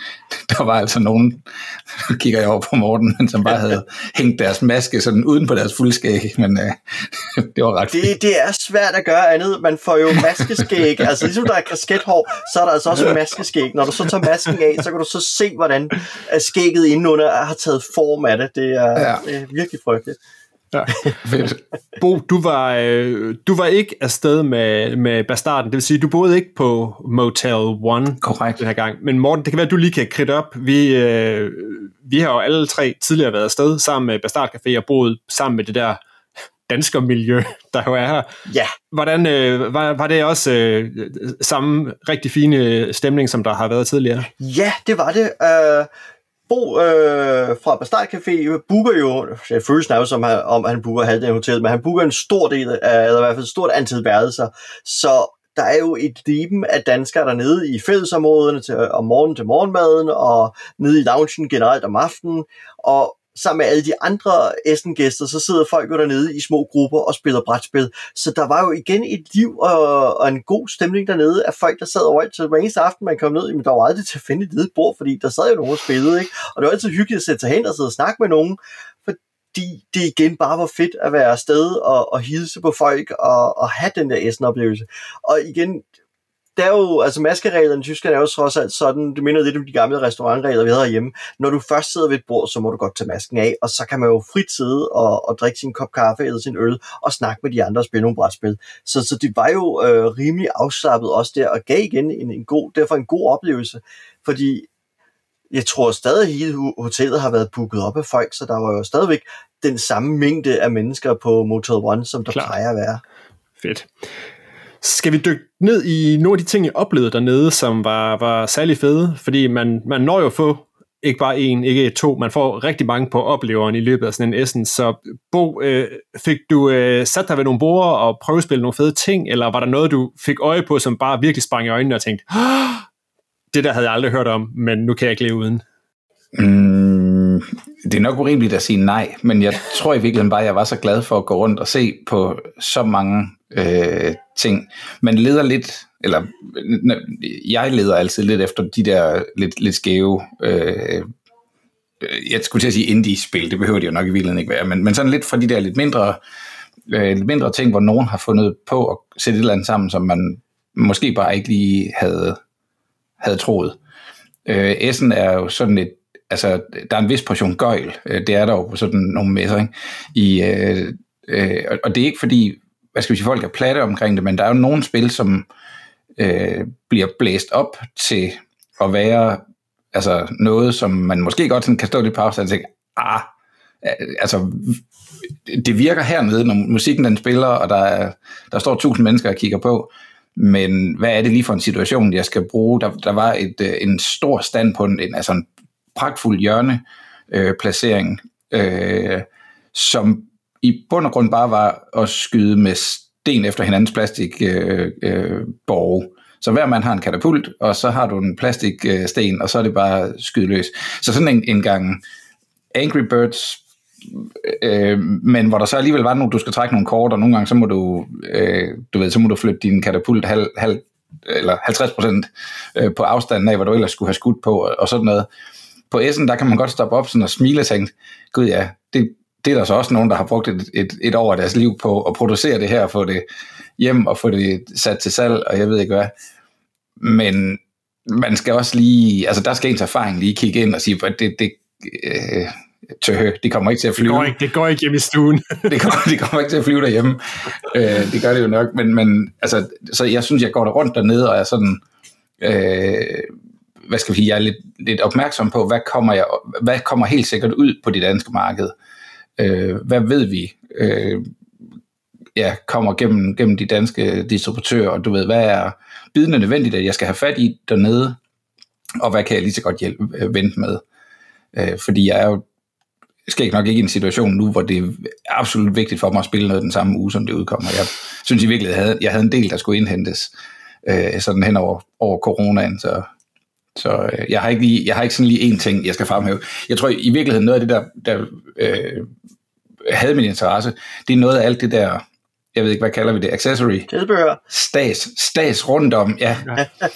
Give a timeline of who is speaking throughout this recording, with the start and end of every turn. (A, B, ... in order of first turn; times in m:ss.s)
0:00.3-0:08.1 A
0:07.9-0:20.2 B
0:21.3-0:21.6 A
0:22.0-0:36.0 C
0:28.2-0:28.6 A
0:36.7-0:38.3 C
0:38.5-0:38.8 B
0:38.9-0:44.3 C
0:44.4-0:45.9 B
0:46.5-1:25.9 B
1:26.6-1:44.7 B
1:45.5-1:53.0 B
1:52.3-1:52.6 C
1:53.6-1:53.9 C
1:54.8-2:12.9 C
2:13.5-2:15.6 C
2:16.4-2:31.1 A
2:32.0-2:36.2 A
2:36.9-2:42.4 A
2:43.2-2:43.8 A
2:44.5-2:55.5 A
2:56.2-2:59.4 A
2:59.9-3:03.3 A
3:03.8-3:04.8 A
3:05.4-3:32.0 A
3:32.7-3:45.3 A
3:45.9-3:53.2 A
3:53.8-3:56.1 A
3:57.0-4:04.4 A
4:04.0-4:05.9 C
4:05.7-4:11.8 A
4:12.4-4:13.3 A
4:13.9-4:18.7 A
4:19.4-4:21.3 A
4:22.4-4:28.2 A
4:29.0-4:30.8 A
4:31.5-4:32.4 A
4:33.3-4:40.3 A
4:40.8-4:43.1 A
4:43.8-4:49.1 A
4:49.8-4:52.0 A
4:52.6-4:53.9 A
4:53.9-4:54.4 B
4:54.5-4:56.5 A